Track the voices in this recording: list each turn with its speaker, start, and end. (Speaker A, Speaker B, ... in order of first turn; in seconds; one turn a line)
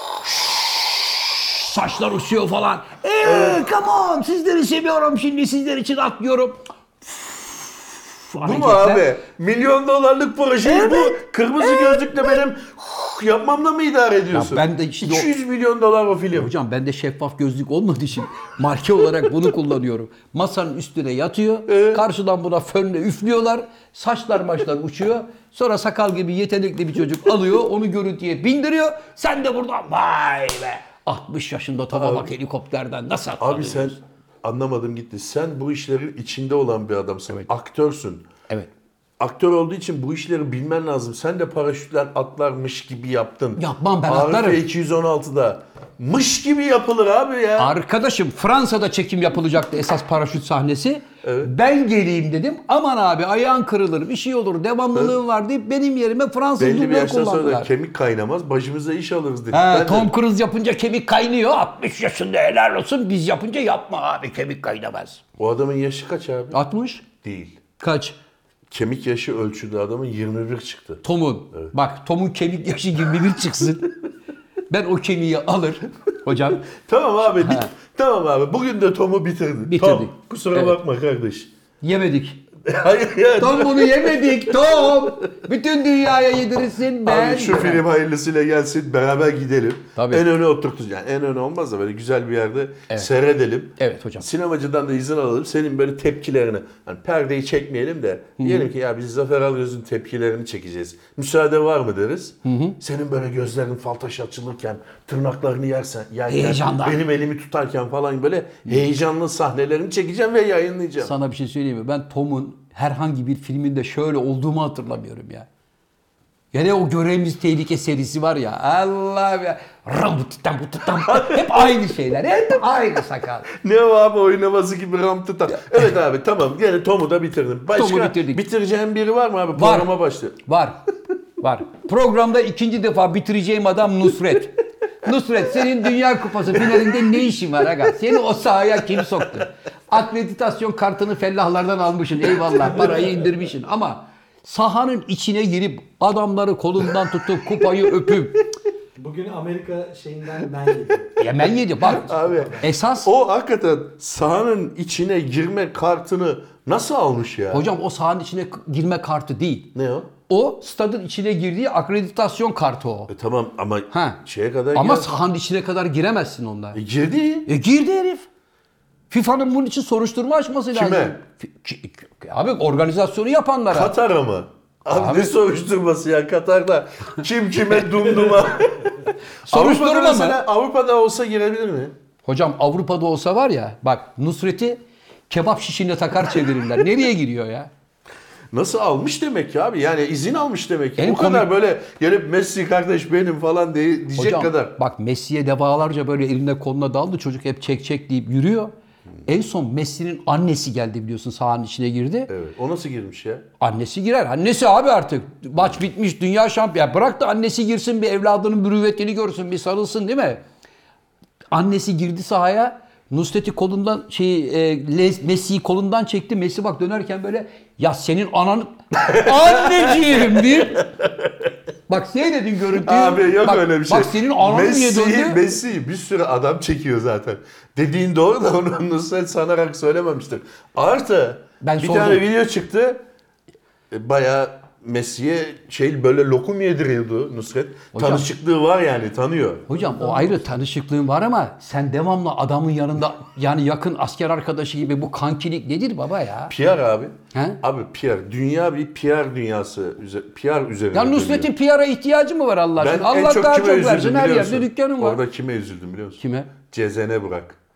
Speaker A: 0.2-9.1
Speaker B: 3.2-3.7
Speaker B: 8.4-16.5
Speaker A: 10.7-11.2
Speaker A: 11.7-12.2
Speaker A: 14.3-15.3
Speaker A: 16.3-34.0
Speaker B: 21.7-22.0
Speaker B: 31.9-32.3
Speaker B: 33.4-38.3
Speaker B: 39.2-47.7
Speaker A: 43.6-44.6
Speaker A: 47.6-57.7
Speaker B: 51.2-51.5
Speaker B: 56.6-60.1
Speaker A: 59.5-65.2
Speaker B: 65.4-66.6
Speaker A: 66.5-67.0
Speaker B: 67.1-67.6
Speaker A: 67.8-68.2
Speaker B: 68.7-71.0
Speaker A: 71.0-73.9
Speaker A: 74.7-76.7
Speaker B: 76.6-81.5
Speaker A: 77.4-77.7
Speaker A: 79.7-80.8
Speaker A: 81.8-82.4
Speaker B: 82.7-85.0
Speaker A: 83.4-87.8
Speaker B: 87.0-111.1
Speaker A: 90.0-90.2
Speaker A: 93.8-94.3
Speaker A: 98.4-98.7
Speaker A: 102.4-102.8
Speaker A: 106.3-107.0
Speaker A: 111.0-115.5
Speaker A: 116.5-123.5
Speaker B: 120.9-121.9
Speaker B: 123.5-130.4
Speaker A: 125.5-125.8
Speaker A: 127.8-128.4
Speaker A: 129.6-129.9
Speaker A: 130.4-130.8
Speaker A: 131.4-148.5
Speaker C: 149.0-151.2
Speaker A: 151.2-153.1
Speaker B: 151.9-157.7
Speaker C: 152.0-152.7
Speaker A: 157.5-159.7
Speaker B: 159.8-160.1
Speaker A: 160.3-163.1
Speaker B: 163.1-165.2
Speaker A: 163.9-164.2
Speaker A: 164.7-166.8
Speaker B: 166.7-167.5
Speaker A: 167.5-168.3
Speaker A: 169.1-173.9
Speaker B: 170.7-171.2
Speaker B: 173.7-181.9
Speaker A: 174.9-175.3
Speaker A: 179.5-180.4
Speaker A: 182.2-187.7
Speaker B: 188.5-194.8
Speaker A: 191.0-191.5
Speaker A: 194.2-198.7
Speaker A: 199.2-202.3
Speaker B: 202.3-203.5
Speaker A: 203.6-210.4
Speaker A: 211.5-220.9
Speaker B: 219.1-221.3
Speaker A: 221.9-225.4
Speaker B: 222.8-233.0
Speaker A: 231.6-232.2
Speaker B: 233.9-240.4
Speaker A: 237.9-238.3
Speaker A: 239.7-246.5
Speaker B: 246.5-251.5
Speaker A: 247.3-247.6
Speaker A: 250.9-255.2
Speaker B: 252.8-257.6
Speaker A: 256.2-256.5